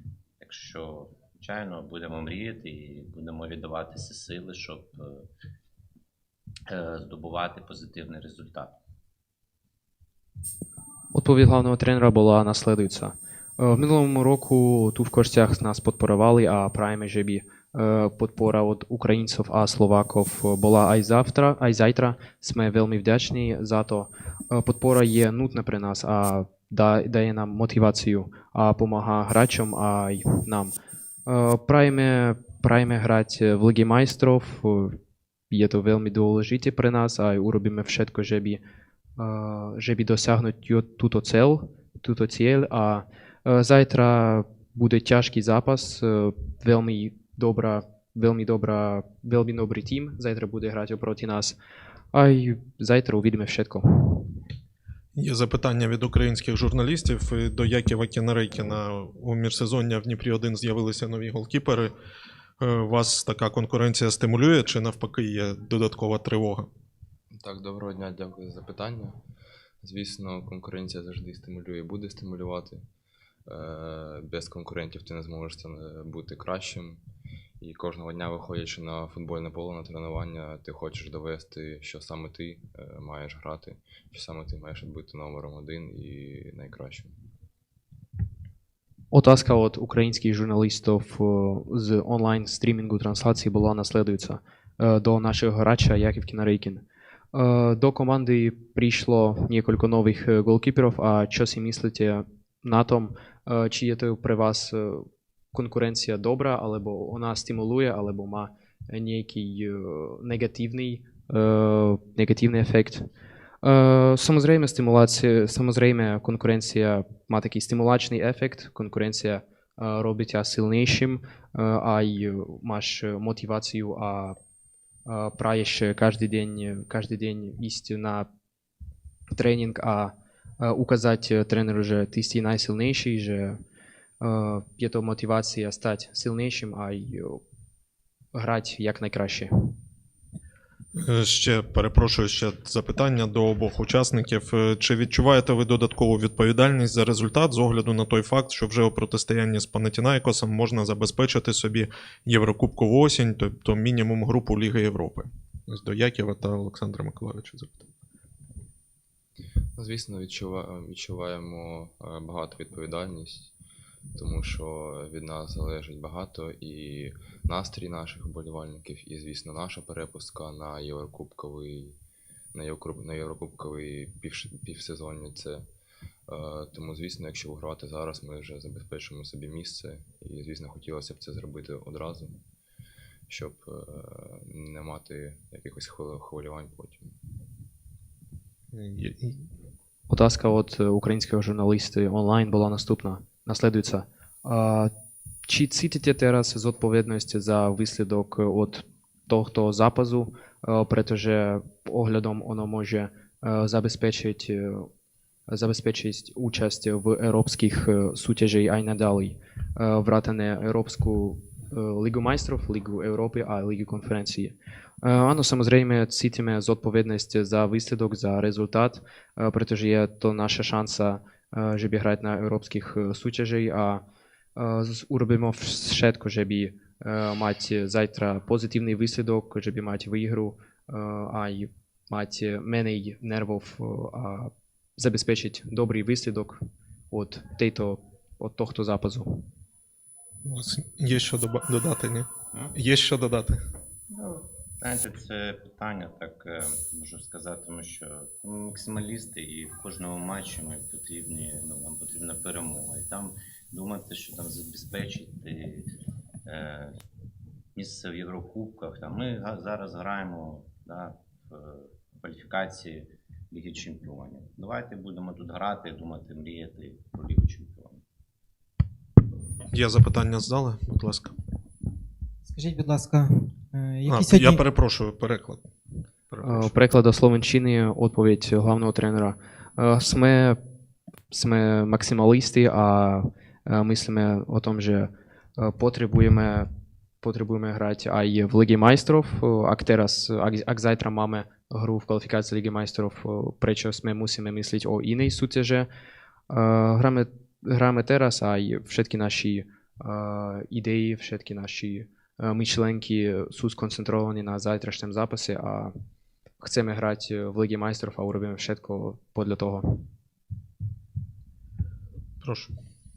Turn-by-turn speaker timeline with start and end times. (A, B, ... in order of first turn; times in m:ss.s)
0:00.4-0:05.3 A
0:06.7-0:08.8 A
0:11.1-0:30.7 B
0:31.3-0:35.0 B
0:35.5-0:38.6 B
0:39.2-0:51.6 B
0:52.1-0:54.4 B
0:55.1-1:01.9 C
1:02.6-1:06.7 C
1:07.3-1:09.2 D
1:09.8-1:12.8 D
1:13.4-1:17.0 D
1:17.6-1:27.2 D
1:29.1-1:53.1 B
1:53.6-2:04.4 B
2:05.0-2:08.3 B
2:09.3-2:13.6 B
2:14.2-2:17.4 B
2:18.3-2:19.8 B
2:20.9-2:37.9 C
2:39.8-2:43.5 D
2:44.1-2:52.0 D
2:52.5-2:55.7 D
2:56.3-3:02.4 D
3:03.3-3:07.1 D
3:08.7-3:09.5 C
3:10.1-3:14.9 B
3:15.5-3:24.9 B
3:25.5-3:44.0 B
3:44.6-3:59.4 B
4:00.4-4:03.6 C
4:04.1-4:15.9 A
4:16.4-4:17.0 A
4:17.7-4:28.0 A
4:29.7-4:31.4 C
4:32.4-4:34.6 E
4:34.1-4:35.6 C
4:36.3-4:36.7 C
4:36.4-4:40.6 B
4:41.3-4:46.7 B
4:47.2-4:55.9 B
4:56.5-5:05.9 B
5:06.6-5:10.0 B
5:12.4-5:12.8 C